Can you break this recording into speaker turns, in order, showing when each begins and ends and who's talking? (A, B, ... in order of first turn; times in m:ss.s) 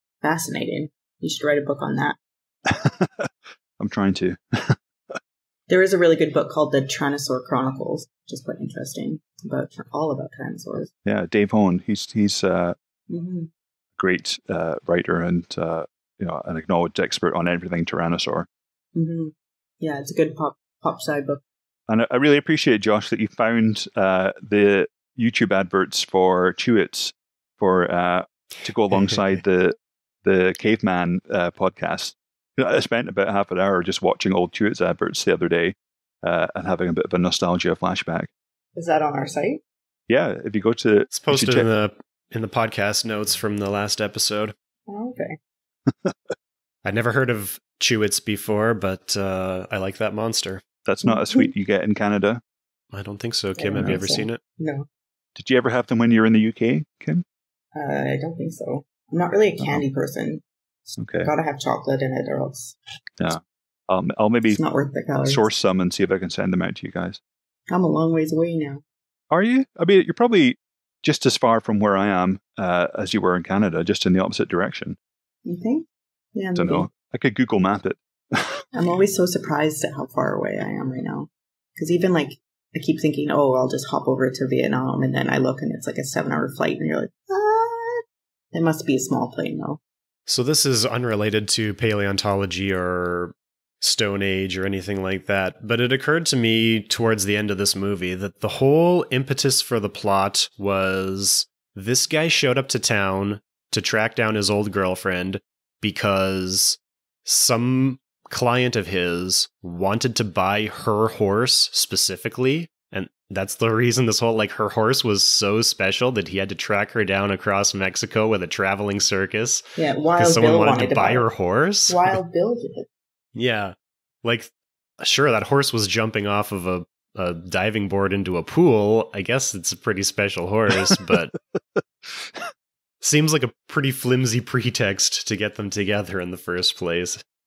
0:00.2-0:02.2 A
0:02.7-0:05.2 B
0:05.7-0:10.9 A
0:11.1-0:12.8 B
0:13.1-0:13.5 A
0:14.0-0:18.5 B
0:19.0-0:21.4 A
0:21.9-0:38.3 B
0:38.8-0:39.6 A
0:40.1-0:41.7 B
0:41.1-0:44.5 C
0:44.9-0:45.4 A
0:45.9-0:46.3 B
0:46.8-0:50.6 C
0:50.8-0:52.4 B
0:51.0-0:51.5 A
0:52.9-0:54.4 C
0:53.6-0:54.9 A
0:55.4-0:57.2 B
0:57.8-1:02.8 A
0:59.6-0:59.8 B
1:01.0-1:01.3 B
1:03.2-1:04.6 B
1:04.5-1:05.5 A
1:05.2-1:07.2 B
1:07.7-1:08.8 A
1:09.3-1:15.0 B
1:15.5-1:16.9 A
1:16.6-1:18.6 B
1:18.7-1:29.8 A
1:30.3-1:59.6 C
1:59.8-2:01.3 A
2:00.2-2:02.2 C
2:01.9-2:02.9 A
2:03.4-2:11.3 C
2:10.9-2:12.5 B
2:13.0-2:17.2 C